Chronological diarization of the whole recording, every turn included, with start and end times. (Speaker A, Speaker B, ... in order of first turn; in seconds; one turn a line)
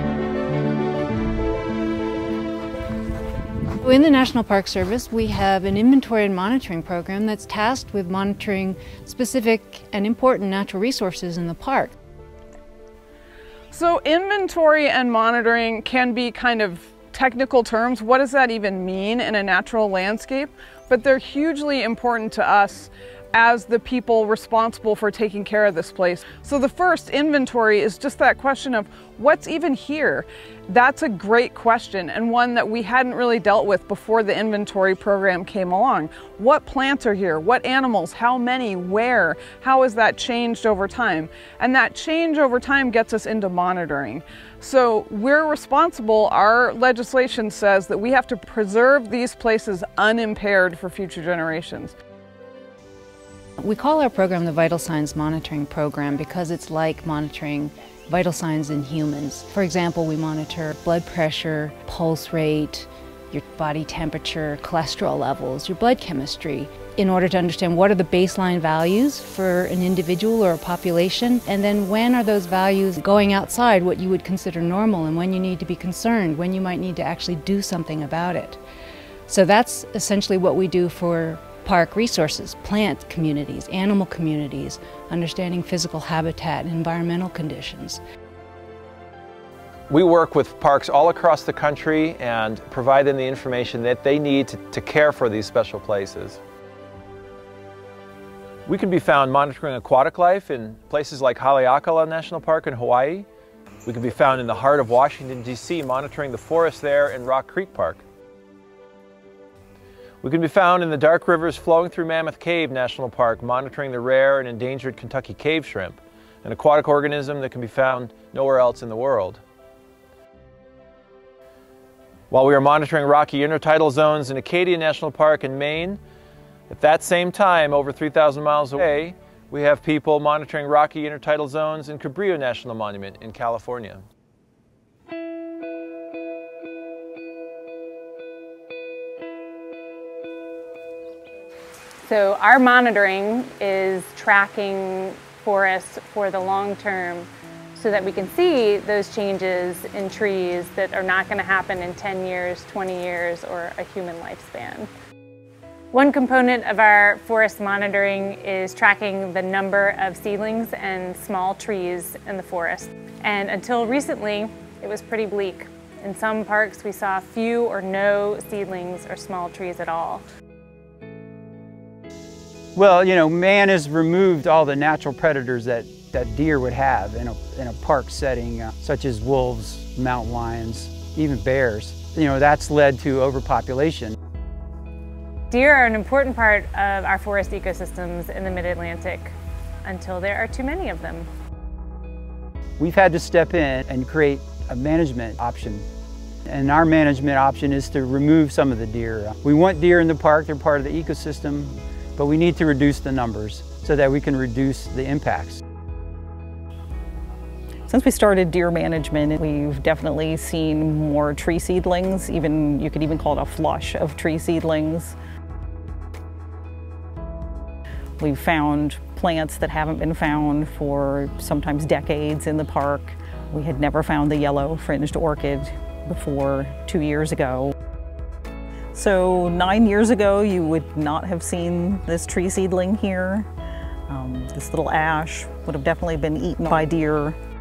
Speaker A: 3.8-11.9
Speaker B: 13.7-51.9
Speaker A: 53.6-78.6
Speaker A: 79.3-88.0
Speaker C: 89.9-96.4
Speaker C: 98.7-103.3
Speaker C: 103.9-108.0
Speaker C: 110.2-119.4
Speaker C: 122.3-126.0
Speaker C: 126.7-134.0
Speaker D: 142.0-154.9
Speaker D: 155.9-170.2
Speaker E: 172.8-184.2
Speaker D: 185.5-189.3
Speaker D: 189.8-191.3
Speaker E: 192.8-195.9
Speaker E: 196.5-205.6
Speaker F: 207.9-215.1
Speaker F: 218.2-227.6
Speaker F: 229.0-233.5
Speaker F: 234.1-237.4